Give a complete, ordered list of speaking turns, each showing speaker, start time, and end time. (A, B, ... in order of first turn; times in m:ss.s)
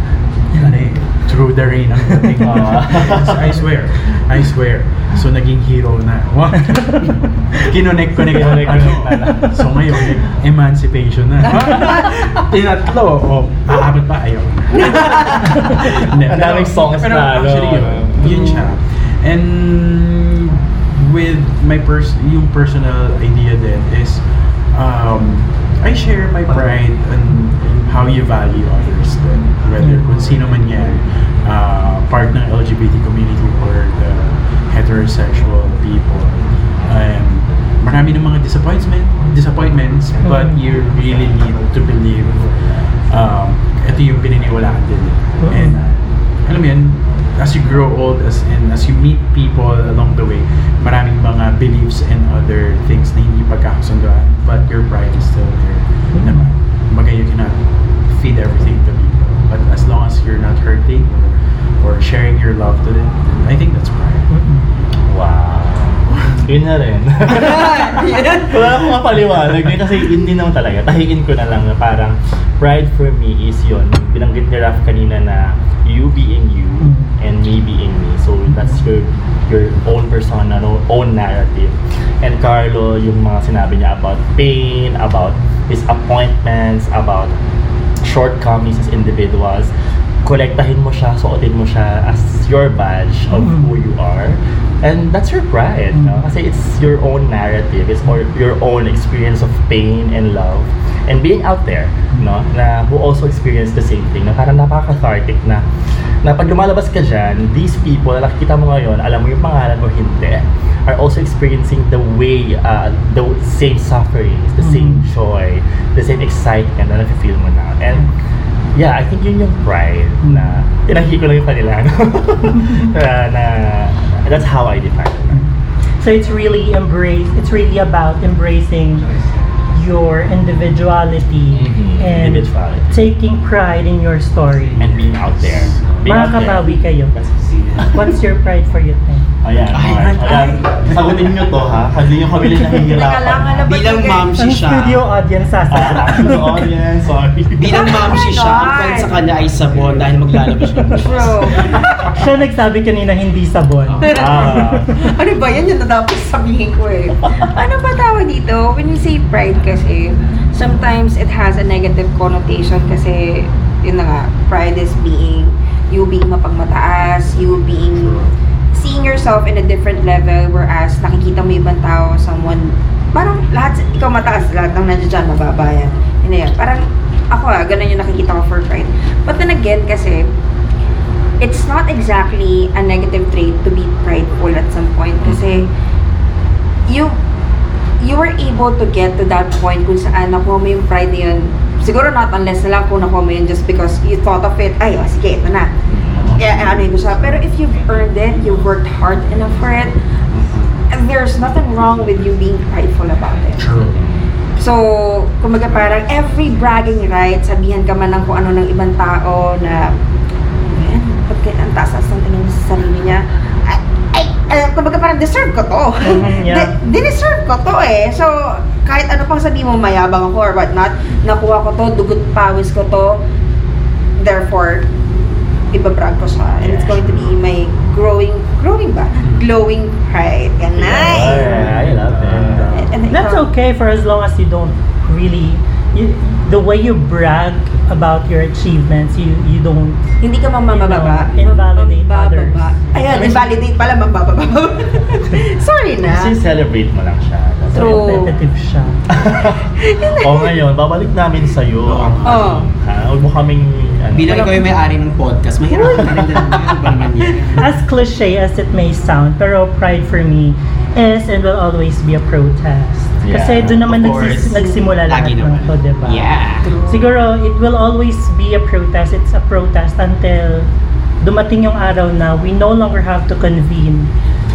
0:00.5-0:42.5 A
0:02.4-0:03.6 B
0:08.2-0:09.6 B
0:15.5-0:18.8 B
0:29.8-0:30.2 C
0:40.2-0:40.6 C
0:43.1-0:57.6 A
0:45.4-0:45.8 C
0:56.1-0:56.5 C
0:58.1-1:04.3 A
1:04.3-1:04.6 C
1:05.1-1:27.3 B
1:07.3-1:08.5 D
1:16.8-1:17.1 C
1:18.5-1:18.8 C
1:28.0-1:29.7 B
1:30.2-1:45.6 B
1:33.3-1:33.7 C
1:35.9-1:36.2 C
1:46.2-1:58.1 B
1:54.6-1:55.0 C
1:58.7-2:05.4 B
2:00.2-2:00.5 C
2:05.3-2:09.1 C
2:09.7-2:14.8 C
2:11.5-2:13.1 B
2:14.8-2:16.8 B
2:15.4-2:15.8 A
2:16.0-2:17.2 C
2:17.2-2:17.8 D
2:17.8-2:19.3 C
2:19.4-2:23.9 B
2:19.7-2:21.3 D
2:22.6-2:24.4 E
2:23.6-2:25.0 D
2:24.4-2:26.7 C
2:25.7-2:28.1 B
2:27.6-2:31.6 D
2:27.7-2:29.2 E
2:29.4-2:30.0 A
2:31.0-2:32.2 E
2:32.1-2:34.9 C
2:34.0-3:00.2 E
2:34.0-2:34.9 B
2:47.7-2:48.1 A
3:01.4-3:05.7 E
3:06.9-3:07.1 E
3:08.0-3:15.7 E
3:15.9-3:16.5 B
3:16.2-3:16.7 A
3:16.3-3:19.9 E
3:20.3-3:20.8 A
3:20.9-3:23.7 E
3:23.6-3:24.0 A
3:23.7-3:24.3 B
3:24.6-3:29.9 E
3:30.6-3:43.2 E
3:36.0-3:36.7 C
3:44.2-3:44.9 E
3:45.7-3:51.9 E
3:46.6-3:47.3 B
3:50.8-3:52.8 B
3:51.0-3:53.0 A
3:52.7-3:53.5 E
3:53.1-4:00.0 C
4:00.2-4:06.4 E
4:00.7-4:03.5 C
4:06.0-4:08.3 B
4:07.7-4:09.0 C
4:07.7-4:08.3 E
4:09.1-4:09.7 B
4:09.3-4:10.6 E
4:10.2-4:14.5 B
4:11.8-4:12.4 D
4:12.2-4:12.6 E
4:14.1-4:17.7 D
4:14.3-4:14.7 E
4:15.7-4:16.2 C
4:16.0-4:16.4 B
4:17.6-4:26.3 C
4:23.2-4:23.8 B
4:23.7-4:26.7 D
4:24.4-4:24.9 E
4:26.6-4:27.1 E
4:26.8-4:30.7 C
4:31.2-4:34.1 C